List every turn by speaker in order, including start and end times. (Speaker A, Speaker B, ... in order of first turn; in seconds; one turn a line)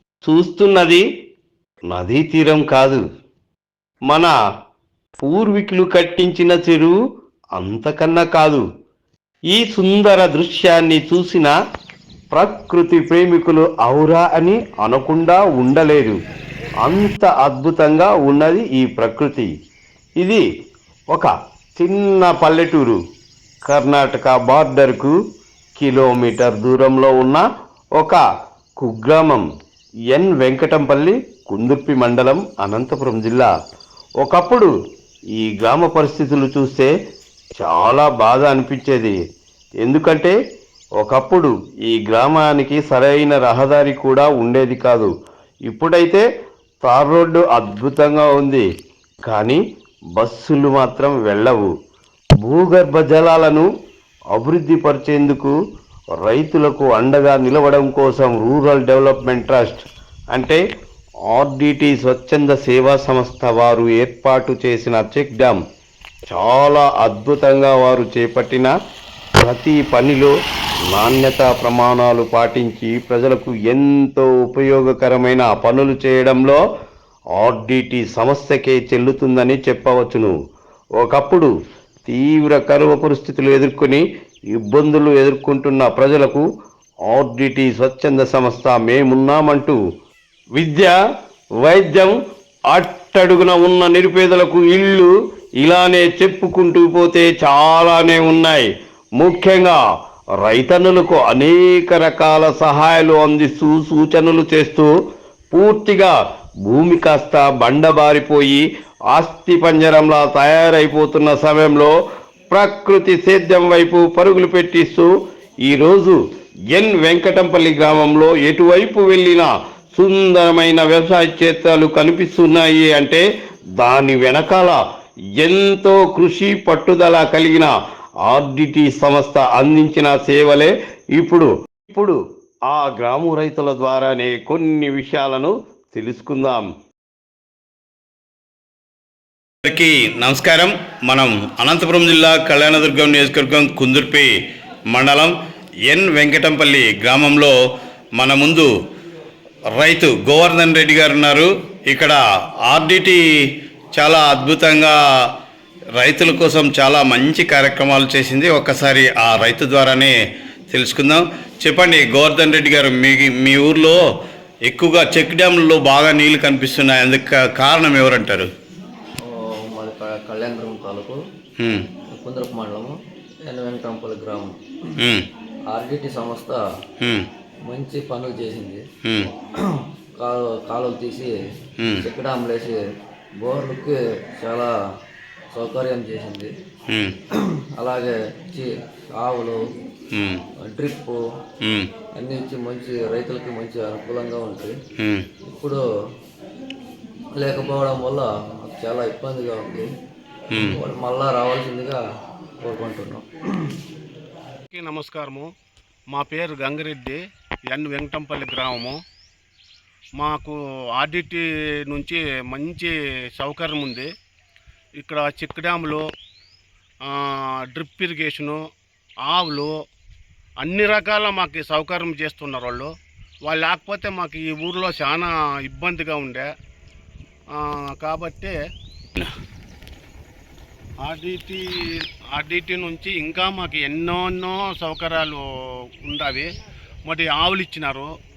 Speaker A: 0.2-1.0
Speaker A: 1.9-3.0
Speaker A: 5.2-7.0
Speaker A: 7.6-8.6
Speaker A: 9.5-11.5
Speaker A: 12.3-16.2
Speaker A: 16.8-19.5
Speaker A: 21.1-23.0
Speaker A: 23.7-25.1
Speaker A: 25.8-27.4
Speaker A: 28.8-29.5
Speaker A: 30.1-33.5
Speaker A: 34.2-34.7
Speaker A: 35.4-36.9
Speaker A: 37.6-39.1
Speaker A: 39.8-40.4
Speaker A: 41.0-45.1
Speaker A: 45.7-46.2
Speaker A: 46.9-48.6
Speaker A: 49.3-49.6
Speaker A: 50.2-51.7
Speaker A: 52.4-53.7
Speaker A: 54.3-55.5
Speaker A: 56.2-59.8
Speaker A: 60.3-60.6
Speaker A: 61.3-65.6
Speaker A: 66.3-68.7
Speaker A: 69.4-70.3
Speaker A: 70.9-76.6
Speaker A: 77.4-80.3
Speaker A: 81.0-81.5
Speaker A: 82.1-84.0
Speaker A: 84.5-86.5
Speaker A: 87.1-89.8
Speaker A: 90.6-90.9
Speaker A: 91.6-92.2
Speaker A: 92.7-98.7
Speaker A: 99.2-99.8
Speaker A: 100.4-104.9
Speaker A: 105.5-106.1
Speaker A: 106.7-111.9
Speaker A: 112.5-115.1
Speaker A: 115.7-116.2
Speaker A: 116.7-123.2
Speaker A: 123.8-124.8
Speaker A: 125.4-127.7
Speaker A: 128.3-132.2
Speaker A: 132.7-136.7
Speaker A: 139.6-144.3
Speaker A: 144.9-145.3
Speaker A: 145.9-147.6
Speaker A: 148.2-148.7
Speaker A: 149.8-153.2
Speaker A: 154.0-155.0
Speaker A: 156.0-160.2
Speaker A: 160.7-164.0
Speaker A: 164.7-168.5
Speaker B: 169.2-171.2
Speaker A: 171.6-171.9
Speaker B: 172.2-174.6
Speaker A: 175.0-175.3
Speaker B: 175.7-176.6
Speaker A: 177.0-177.3
Speaker B: 177.7-178.8
Speaker A: 179.1-179.3
Speaker B: 179.6-181.3
Speaker A: 181.8-182.1
Speaker B: 182.0-182.8
Speaker B: 183.4-184.7
Speaker B: 185.5-186.5
Speaker A: 186.9-187.2
Speaker B: 187.3-189.6
Speaker A: 190.2-190.4
Speaker B: 190.6-191.2
Speaker A: 191.6-191.9
Speaker B: 192.2-194.7
Speaker A: 195.0-195.3
Speaker B: 195.5-195.8
Speaker B: 197.3-199.9
Speaker A: 200.5-200.8
Speaker B: 200.6-202.0
Speaker B: 202.6-203.7
Speaker C: 204.7-205.5
Speaker C: 206.1-209.0
Speaker C: 210.2-214.1
Speaker C: 215.0-216.1
Speaker C: 217.1-218.6
Speaker C: 219.3-219.7
Speaker C: 220.6-222.9
Speaker C: 223.5-226.5
Speaker C: 227.5-228.6
Speaker C: 231.0-236.5
Speaker C: 237.1-238.1